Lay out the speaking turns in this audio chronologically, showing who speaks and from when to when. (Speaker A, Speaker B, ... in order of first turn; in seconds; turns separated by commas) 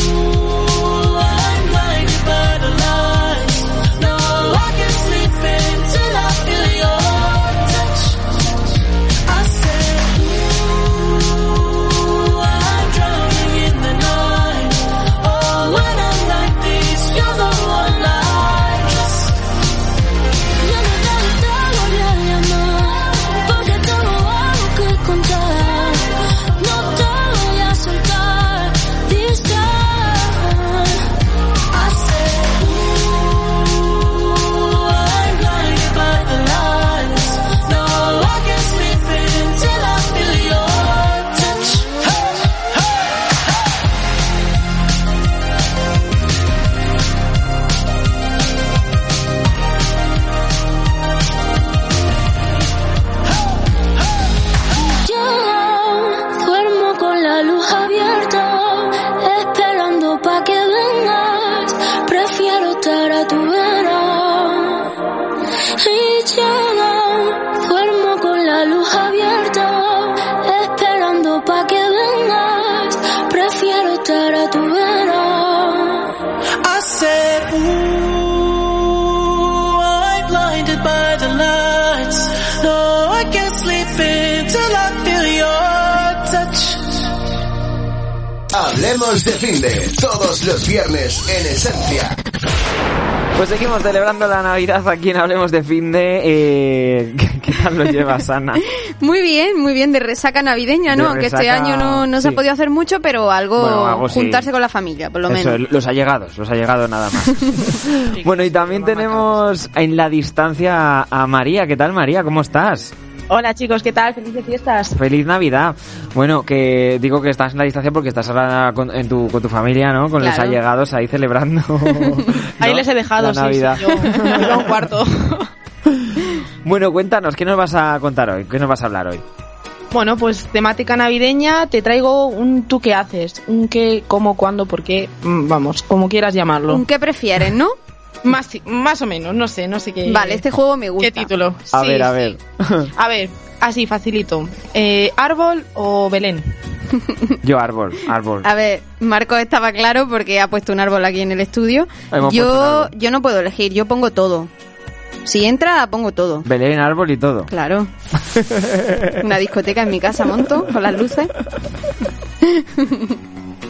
Speaker A: 0.4-8.2, Speaker A: 9.2-19.3, Speaker B: 17.3-17.9, Speaker B: 20.6-31.0, Speaker A: 31.8-34.1, Speaker A: 34.7-42.6, Speaker B: 54.8-64.9, Speaker B: 65.8-76.1, Speaker A: 76.6-87.0, Speaker C: 88.5-92.2, Speaker D: 93.3-98.6, Speaker E: 99.0-105.6, Speaker D: 100.9-102.4, Speaker D: 103.6-104.5, Speaker D: 105.3-112.9, Speaker F: 108.1-109.4, Speaker F: 113.3-115.0, Speaker D: 114.9-124.6, Speaker E: 120.2-120.6, Speaker F: 122.6-125.5, Speaker E: 124.1-124.4, Speaker D: 126.6-129.2, Speaker F: 129.9-136.8, Speaker E: 136.7-137.8, Speaker F: 138.2-140.4, Speaker E: 140.1-141.3, Speaker F: 141.0-142.2, Speaker D: 141.7-142.9, Speaker F: 142.9-146.5, Speaker D: 147.4-148.5, Speaker E: 148.4-154.5, Speaker D: 152.1-152.9, Speaker E: 155.2-156.4, Speaker D: 156.4-157.5, Speaker E: 157.5-157.9, Speaker D: 158.3-159.0, Speaker E: 159.2-161.3, Speaker E: 162.5-163.1